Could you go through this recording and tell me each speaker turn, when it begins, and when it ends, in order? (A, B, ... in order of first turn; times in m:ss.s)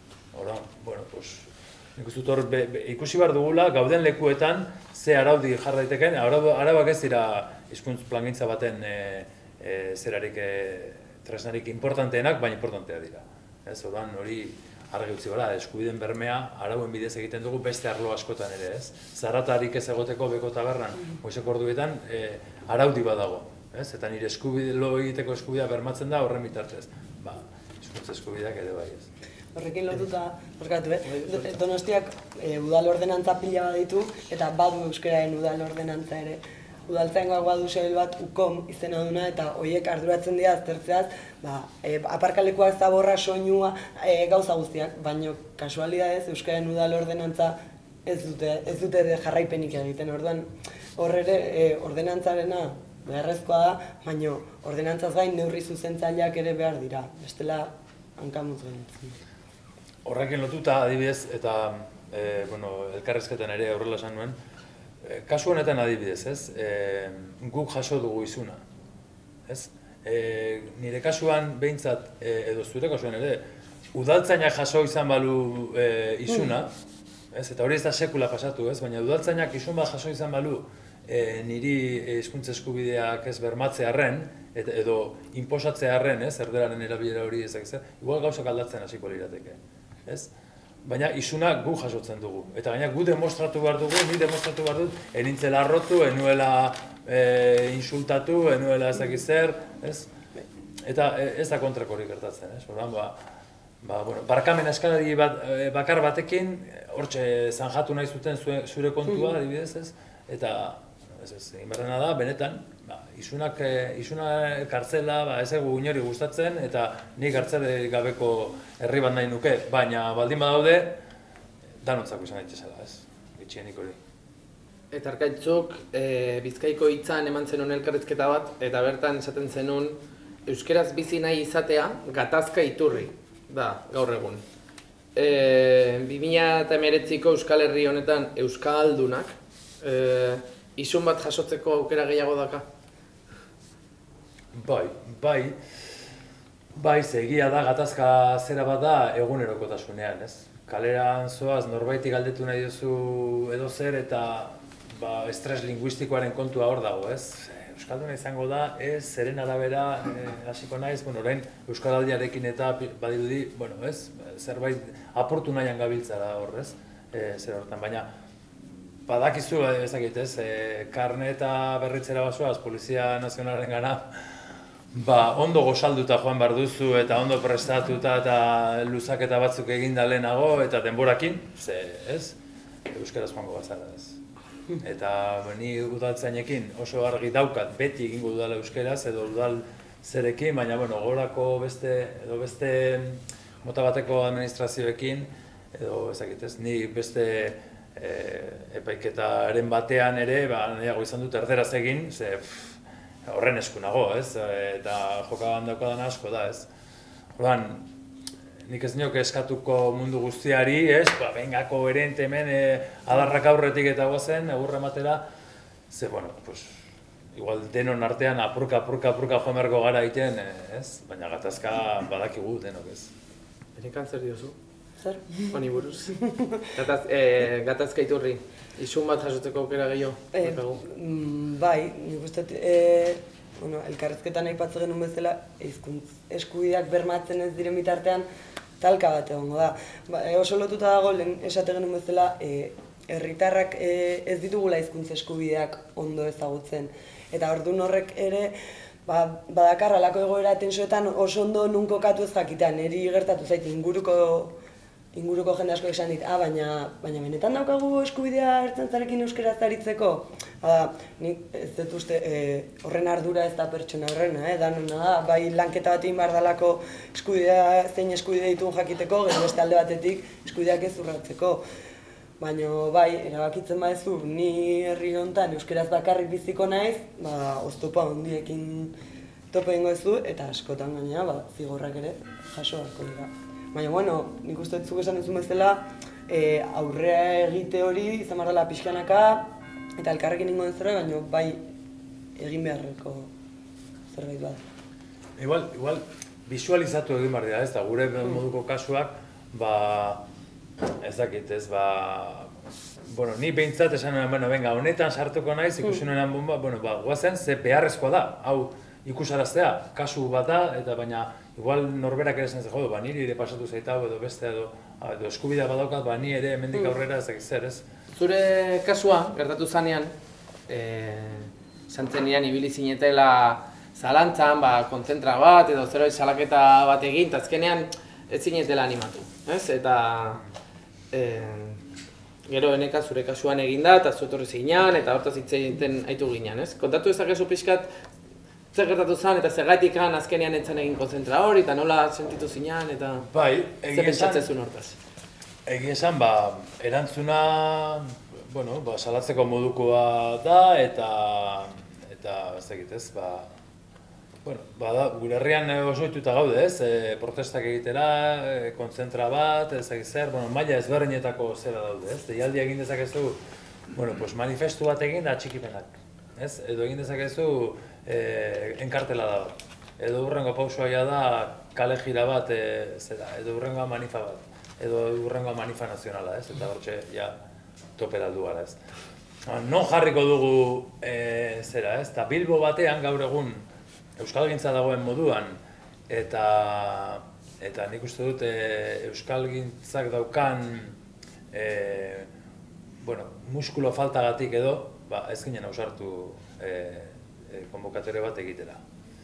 0:00.3-0:29.1 A
0:29.6-0:59.2 B
0:31.2-0:31.5 C
1:00.0-1:04.4 A
1:05.0-1:08.6 A
1:09.5-1:13.4 A
1:13.9-1:16.7 A
1:17.3-1:30.3 A
1:30.8-1:40.1 A
1:40.8-1:43.2 A
1:43.8-2:01.0 A
2:01.8-2:04.0 A
2:04.9-2:14.4 C
2:15.2-2:22.7 C
2:24.5-2:25.6 A
2:26.8-2:48.1 A
2:49.1-2:54.2 A
2:54.9-3:02.4 A
3:02.9-3:04.2 A
3:04.8-3:26.7 A
3:27.4-3:27.9 A
3:28.7-3:35.2 A
3:35.9-3:36.8 A
3:37.3-3:43.1 A
3:43.8-3:44.6 C
3:45.0-3:45.4 B
3:45.4-3:46.2 C
3:46.2-3:46.7 B
3:46.7-3:50.8 C
3:50.3-3:58.3 B
3:58.8-4:08.6 B
4:09.1-4:14.6 B
4:15.1-4:31.6 B
4:32.4-4:38.9 B
4:39.5-4:51.6 B
4:52.4-4:53.3 B
4:54.1-4:54.6 B
4:55.4-5:00.2 A
5:01.0-5:02.5 A
5:03.1-5:17.8 A
5:18.1-5:20.1 C
5:20.7-5:30.4 C
5:31.1-5:31.8 C
5:32.5-5:37.9 C
5:38.7-5:43.3 C
5:43.3-5:44.5 A
5:43.9-5:45.0 C
5:45.7-5:53.5 A
5:54.4-6:03.4 A
6:03.9-6:17.3 A
6:18.0-6:18.8 A
6:19.5-6:23.6 A
6:24.2-6:25.6 A
6:26.1-6:31.0 A
6:31.5-6:32.3 A
6:33.0-6:38.8 A